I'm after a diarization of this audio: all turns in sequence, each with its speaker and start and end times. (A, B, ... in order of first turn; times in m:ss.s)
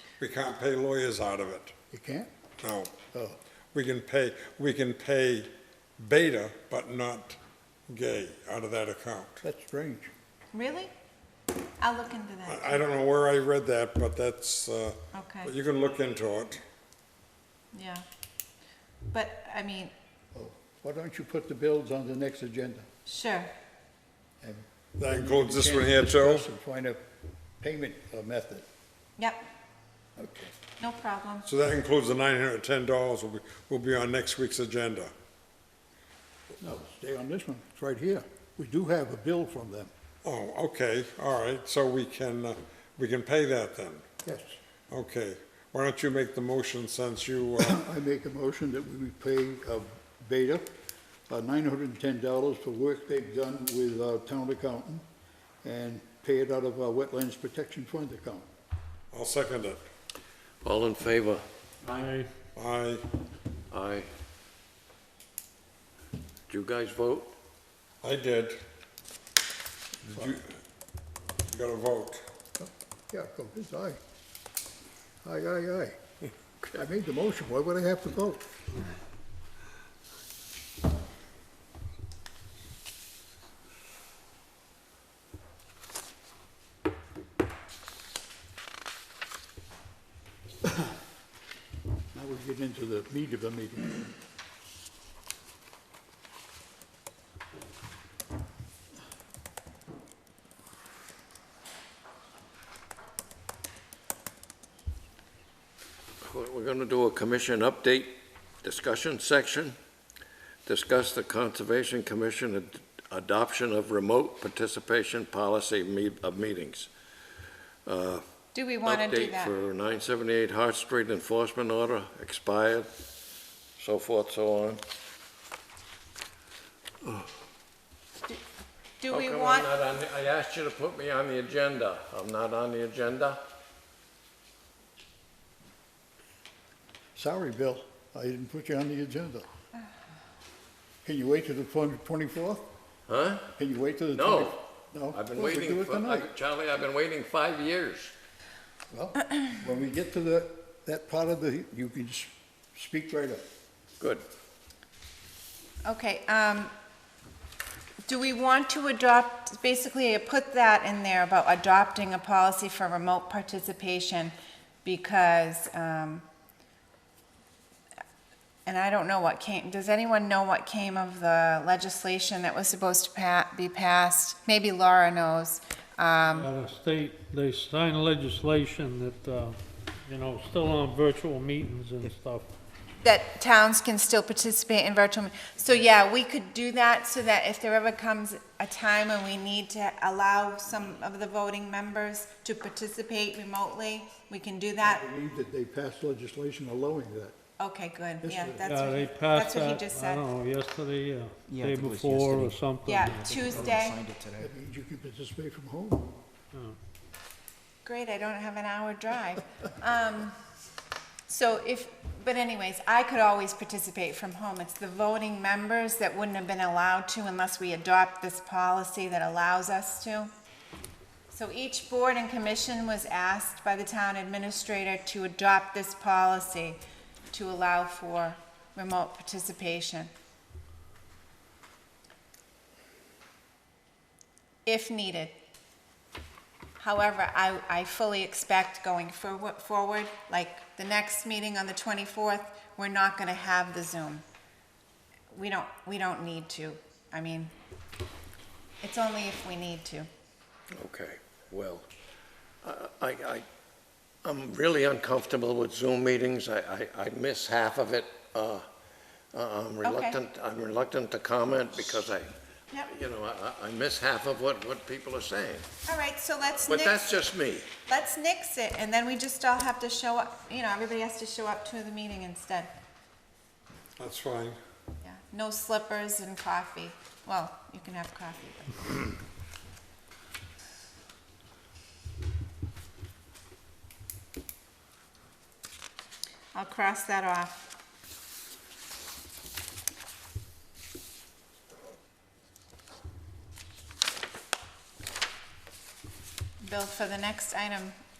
0:00.2-0:01.7 A
0:01.9-0:02.3 B
0:02.6-0:02.9 A
0:03.1-0:03.4 B
0:03.7-0:09.4 A
0:09.4-0:10.1 B
0:10.5-0:10.9 C
0:11.8-0:12.8 C
0:12.5-0:16.6 A
0:15.1-0:15.5 C
0:17.7-0:18.0 C
0:19.1-0:19.9 C
0:20.3-0:22.9 B
0:23.0-0:23.5 C
0:24.4-0:27.0 B
0:25.0-0:26.4 A
0:27.6-0:28.6 B
0:30.2-0:30.5 B
0:30.8-0:31.4 C
0:31.4-0:35.1 A
0:36.6-0:39.9 B
0:40.2-0:44.0 A
0:44.2-0:44.6 B
0:44.9-0:47.8 A
0:47.6-0:50.6 B
0:51.3-0:55.0 B
0:55.6-0:58.4 B
0:59.1-0:59.8 A
1:00.6-1:01.4 D
1:01.8-1:02.3 E
1:02.6-1:03.0 A
1:03.7-1:04.1 D
1:06.5-1:07.3 D
1:08.0-1:08.6 A
1:10.1-1:10.5 A
1:11.5-1:12.2 A
1:12.6-1:14.0 B
1:15.2-1:16.0 B
1:16.7-1:18.4 B
1:32.1-1:34.1 B
1:46.2-1:49.7 D
1:50.6-1:56.9 D
1:57.8-1:58.2 D
1:58.5-1:59.5 C
1:58.8-2:02.9 D
2:03.8-2:04.8 D
2:09.0-2:09.7 C
2:09.1-2:13.4 D
2:17.2-2:19.4 B
2:21.0-2:22.6 B
2:23.1-2:23.5 D
2:23.6-2:26.3 B
2:24.1-2:24.6 D
2:25.1-2:28.1 D
2:28.9-2:33.4 B
2:34.0-2:34.2 D
2:35.8-2:36.7 C
2:38.0-2:46.2 C
2:48.6-2:56.5 C
2:56.2-3:02.5 E
3:03.0-3:15.0 C
3:14.8-3:17.3 B
3:17.6-3:20.3 C
3:18.2-3:18.7 B
3:18.6-3:23.2 E
3:21.5-3:24.5 F
3:22.8-3:24.0 C
3:24.4-3:26.1 B
3:27.8-3:30.4 C
3:31.3-3:40.3 C
3:41.3-3:46.8 C
3:47.3-3:50.1 C
3:54.6-3:55.3 C
3:56.8-4:04.2 C
4:05.3-4:07.5 C
4:08.8-4:10.1 C
4:10.7-4:11.9 D
4:12.6-4:13.4 D
4:14.2-4:18.6 D
4:19.3-4:25.7 D
4:19.8-4:20.2 C
4:25.8-4:27.0 C
4:26.7-4:27.7 D
4:27.9-4:32.7 C
4:34.0-4:34.6 A
4:35.0-4:39.1 C
4:46.5-4:47.7 C
4:56.6-4:58.0 C